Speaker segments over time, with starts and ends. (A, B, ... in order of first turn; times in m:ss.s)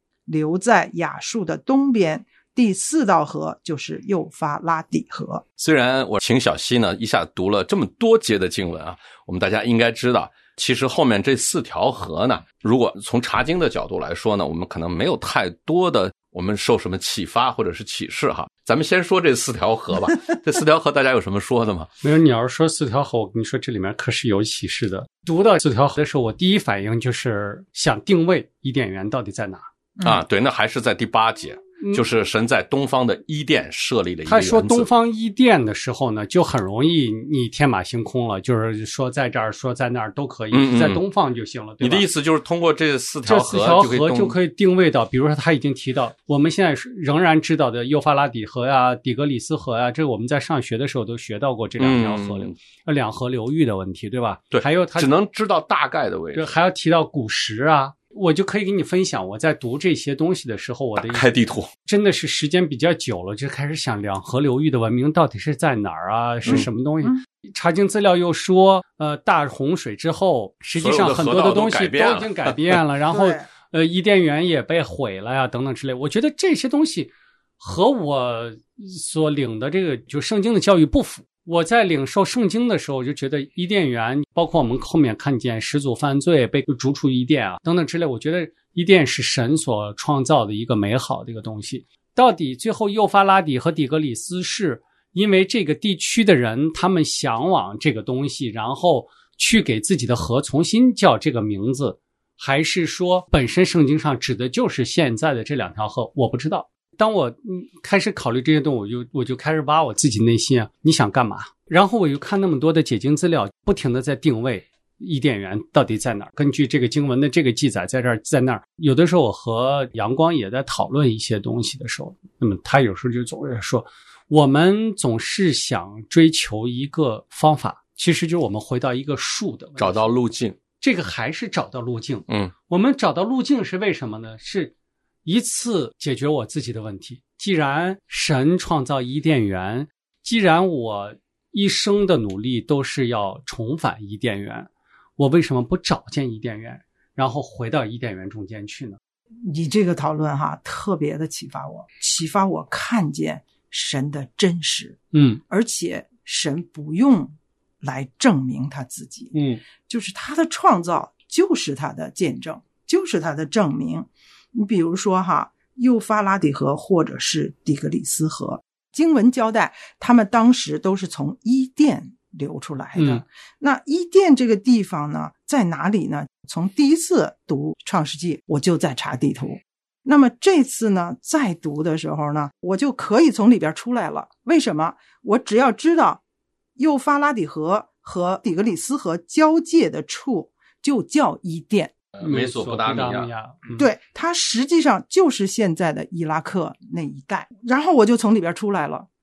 0:00.3-0:05.4 A
0:05.6-0:21.9 B
0:22.0-0:29.7 C
0:30.0-0:34.9 B
0:34.3-0:42.1 C
0:40.5-0:41.0 B
0:41.8-0:44.4 B
0:43.3-0:55.1 C
0:51.8-0:52.5 B
0:54.5-0:56.5 B
0:56.4-1:01.3 C
1:01.0-1:01.7 B
1:01.8-2:10.1 C
1:06.4-1:07.2 A
1:10.8-1:12.8 B
1:13.1-1:13.5 A
2:09.8-2:10.6 B
2:10.8-2:14.7 C
2:12.3-2:12.5 B
2:15.2-2:29.0 C
2:29.5-3:06.2 A
2:35.1-2:35.4 C
2:39.3-2:39.6 C
2:53.0-2:53.2 C
3:06.8-3:11.9 A
3:12.2-3:13.7 B
3:12.2-3:13.9 C
3:13.8-3:19.1 A